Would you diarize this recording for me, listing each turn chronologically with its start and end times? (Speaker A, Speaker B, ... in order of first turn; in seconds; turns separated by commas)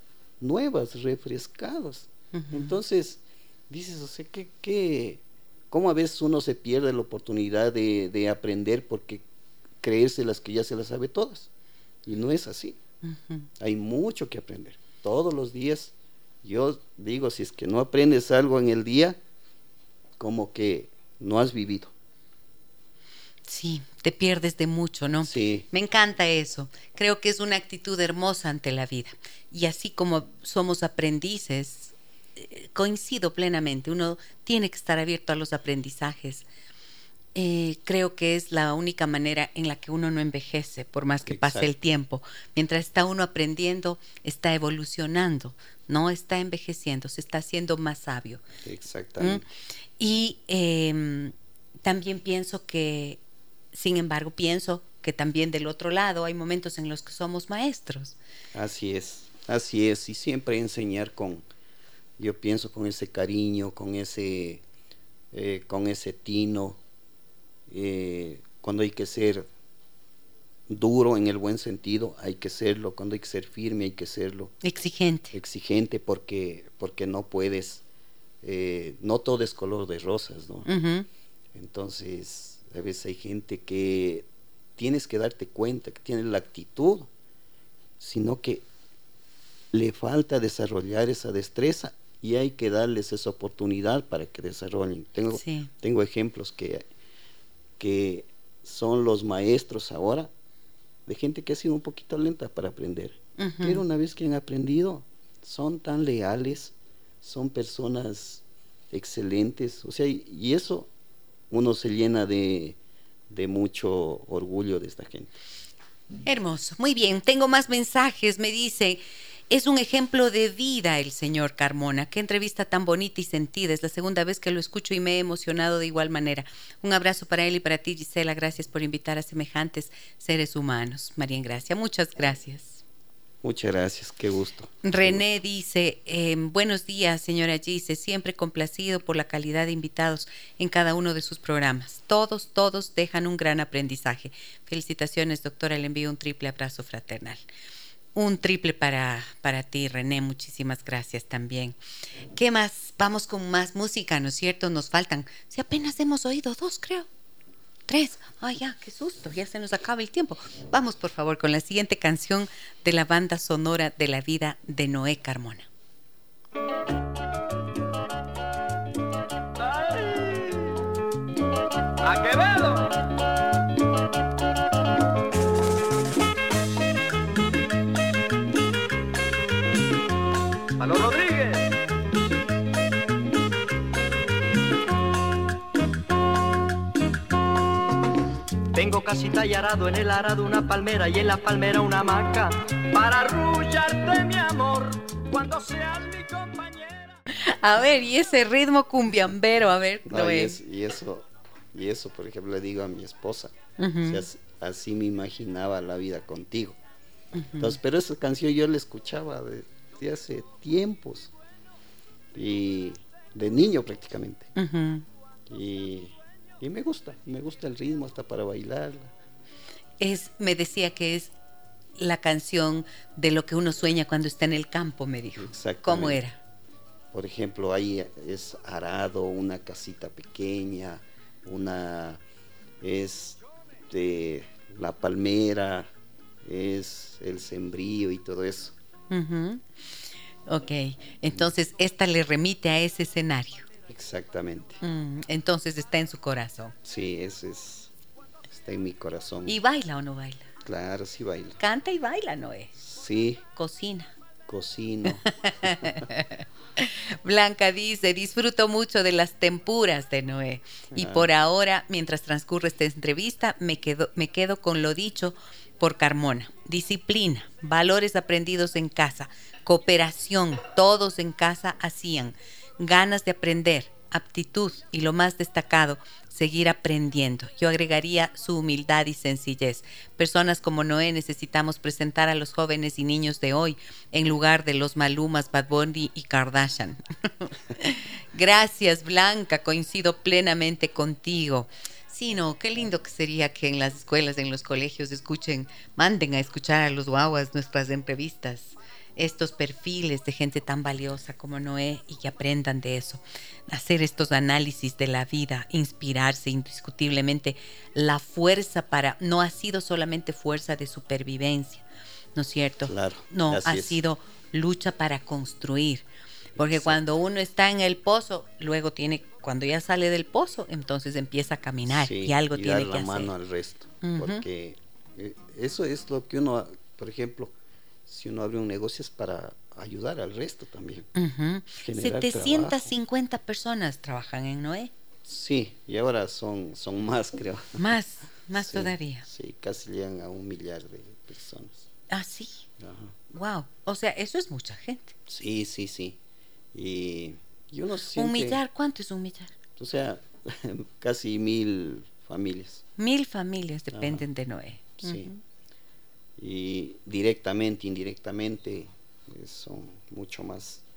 Speaker A: 0.4-9.2, Speaker B: 2.3-2.8, Speaker A: 9.8-11.5, Speaker A: 12.0-12.8, Speaker B: 13.0-13.5, Speaker A: 13.6-19.2, Speaker A: 20.2-21.9, Speaker B: 23.4-36.4, Speaker A: 25.2-25.6, Speaker B: 37.3-48.4, Speaker A: 41.2-41.7, Speaker A: 48.6-49.5, Speaker B: 50.0-53.2, Speaker B: 53.7-58.2, Speaker A: 58.5-61.4, Speaker A: 62.2-64.6, Speaker A: 65.3-66.8, Speaker A: 67.7-69.5, Speaker A: 70.7-74.5, Speaker B: 74.6-75.3, Speaker A: 75.3-77.8, Speaker A: 78.4-80.7, Speaker B: 80.7-81.1, Speaker A: 81.5-87.1, Speaker A: 88.0-88.7, Speaker A: 89.7-96.8, Speaker B: 95.3-95.7, Speaker A: 97.8-100.3, Speaker A: 101.0-110.9, Speaker B: 103.4-103.8, Speaker A: 111.5-112.8, Speaker A: 113.3-115.4, Speaker B: 116.2-132.8, Speaker A: 133.4-135.2, Speaker B: 134.8-147.4, Speaker B: 148.1-151.8, Speaker B: 152.3-157.1, Speaker B: 157.9-165.7, Speaker C: 169.6-170.7, Speaker C: 172.0-173.0, Speaker C: 180.8-181.7, Speaker C: 188.7-197.2, Speaker B: 197.3-200.6, Speaker A: 200.1-206.8, Speaker B: 203.8-204.2, Speaker B: 207.3-207.8, Speaker A: 207.6-211.3, Speaker A: 212.3-214.5, Speaker B: 214.5-215.1, Speaker A: 215.5-219.1, Speaker B: 220.0-221.3, Speaker B: 222.0-226.4, Speaker A: 225.4-226.2, Speaker A: 227.1-232.2, Speaker A: 232.8-235.9, Speaker A: 236.4-238.7, Speaker B: 239.1-239.6, Speaker B: 240.5-243.7, Speaker A: 243.9-244.8, Speaker B: 244.8-246.7, Speaker A: 246.8-247.9, Speaker A: 248.5-249.6, Speaker B: 249.5-250.5, Speaker A: 250.6-251.6, Speaker B: 251.6-252.8, Speaker A: 252.8-253.4, Speaker B: 253.6-254.1, Speaker A: 254.5-256.1, Speaker B: 255.1-311.8, Speaker A: 260.9-261.3, Speaker B: 312.3-316.0, Speaker A: 312.8-314.0, Speaker A: 316.6-317.0, Speaker B: 316.6-323.3, Speaker A: 321.9-327.5, Speaker B: 324.0-324.4, Speaker A: 328.1-331.1, Speaker B: 331.1-334.9, Speaker A: 331.8-332.9, Speaker A: 335.2-337.8, Speaker B: 337.8-339.2, Speaker A: 338.5-341.9, Speaker B: 342.1-342.6, Speaker A: 342.8-343.1, Speaker B: 343.3-345.1, Speaker A: 345.3-346.2, Speaker A: 346.7-348.6, Speaker B: 348.1-349.5, Speaker A: 349.8-352.8, Speaker B: 353.0-355.4, Speaker A: 353.9-354.2, Speaker A: 355.0-355.3, Speaker A: 356.4-360.8